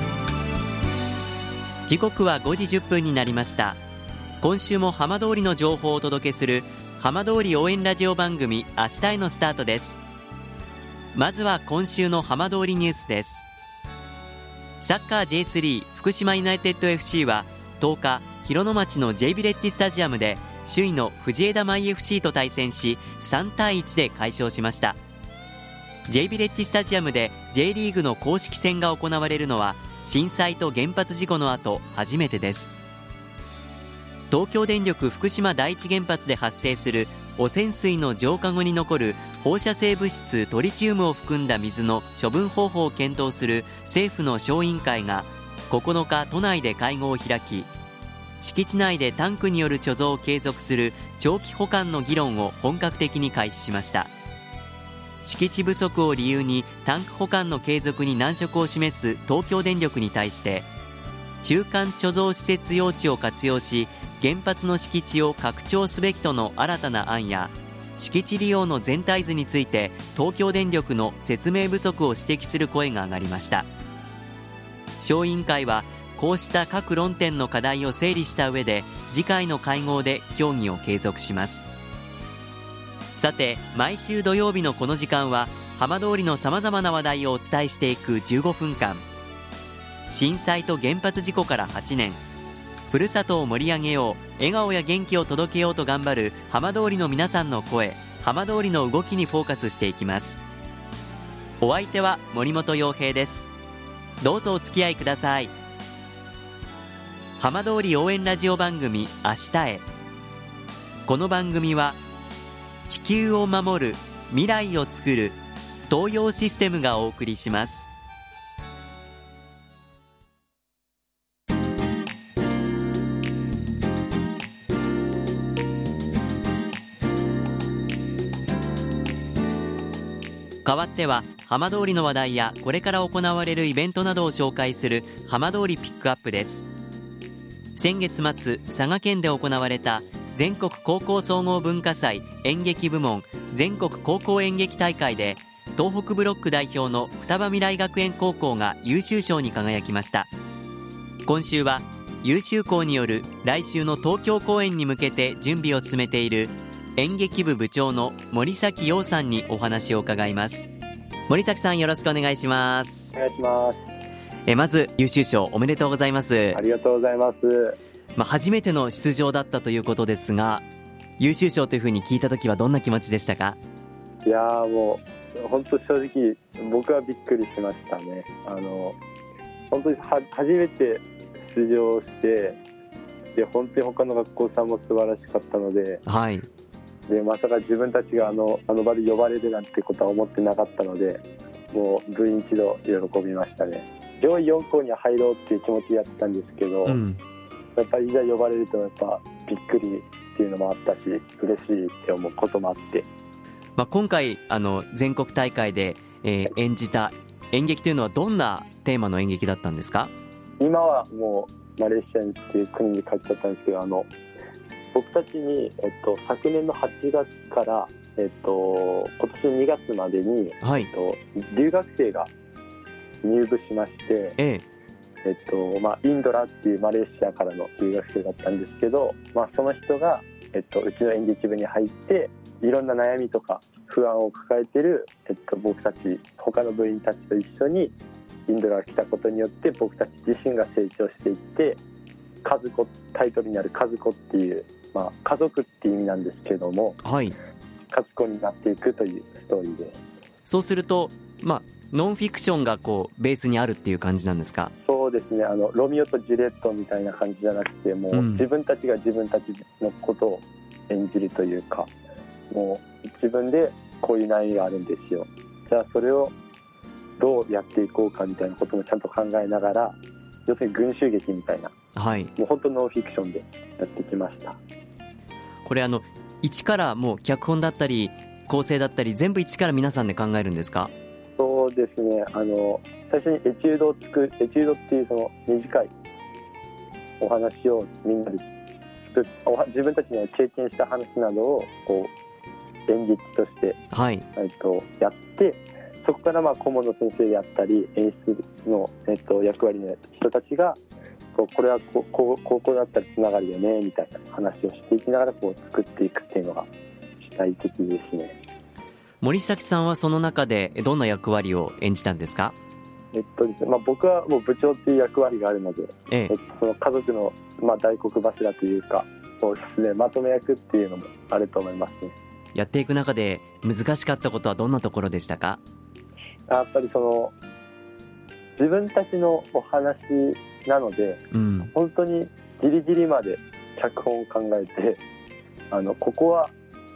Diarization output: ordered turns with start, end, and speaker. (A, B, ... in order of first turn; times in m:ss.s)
0:01.9-0:03.8 A
0:04.4-0:10.0 A
0:11.2-0:13.5 A
0:14.8-0:25.0 A
0:26.1-0:32.8 A
0:34.3-0:47.7 A
0:48.4-0:54.1 A
0:55.2-1:00.7 A
1:01.4-1:13.7 A
1:15.0-1:21.7 A
1:23.2-1:29.0 A
1:30.1-1:32.2 A
1:32.9-1:40.4 A
1:41.6-1:43.5 A
1:44.2-1:45.5 A
1:47.4-1:49.8 A
1:51.1-1:52.0 A
1:52.9-1:55.4 A
1:55.9-1:57.9 A
2:10.6-2:16.7 A
2:17.8-2:30.3 A
2:31.3-2:40.7 A
2:41.3-2:43.1 A
2:43.1-2:43.8 B
2:44.5-2:46.6 A
2:46.5-2:47.8 B
2:48.2-2:50.6 A
2:51.2-2:53.6 A
2:54.2-2:59.0 B
2:59.7-3:02.6 B
3:03.4-3:06.0 B
3:06.1-3:06.5 A
3:07.1-3:17.0 B
3:16.9-3:17.2 A
3:17.8-3:23.1 B
3:23.8-3:30.1 A
3:30.6-3:34.1 B
3:34.9-3:42.3 B
3:40.6-3:40.9 A
3:43.2-3:44.4 B
3:44.4-3:44.6 A
3:45.2-3:57.9 B
3:58.5-4:01.8 B
4:02.4-4:07.0 B
4:07.0-4:07.4 A
4:07.9-4:10.0 B
4:10.5-4:14.7 A
4:14.8-4:21.9 B
4:18.1-4:18.4 A
4:22.5-4:26.3 B
4:27.2-4:31.7 B
4:32.0-4:32.3 A
4:32.4-4:34.6 B
4:35.6-4:40.9 A
4:41.4-4:45.9 B
4:47.2-4:48.4 B
4:49.0-4:52.1 B
4:52.9-4:53.8 B
4:53.9-4:54.2 A
4:54.4-5:00.8 B
5:01.4-5:06.7 B
5:07.2-5:08.4 B
5:09.2-5:12.6 A
5:13.1-5:22.2 B
5:22.6-5:25.6 A
5:26.5-5:27.3 B
5:28.6-5:35.0 B
5:31.3-5:31.7 A
5:35.7-5:36.5 B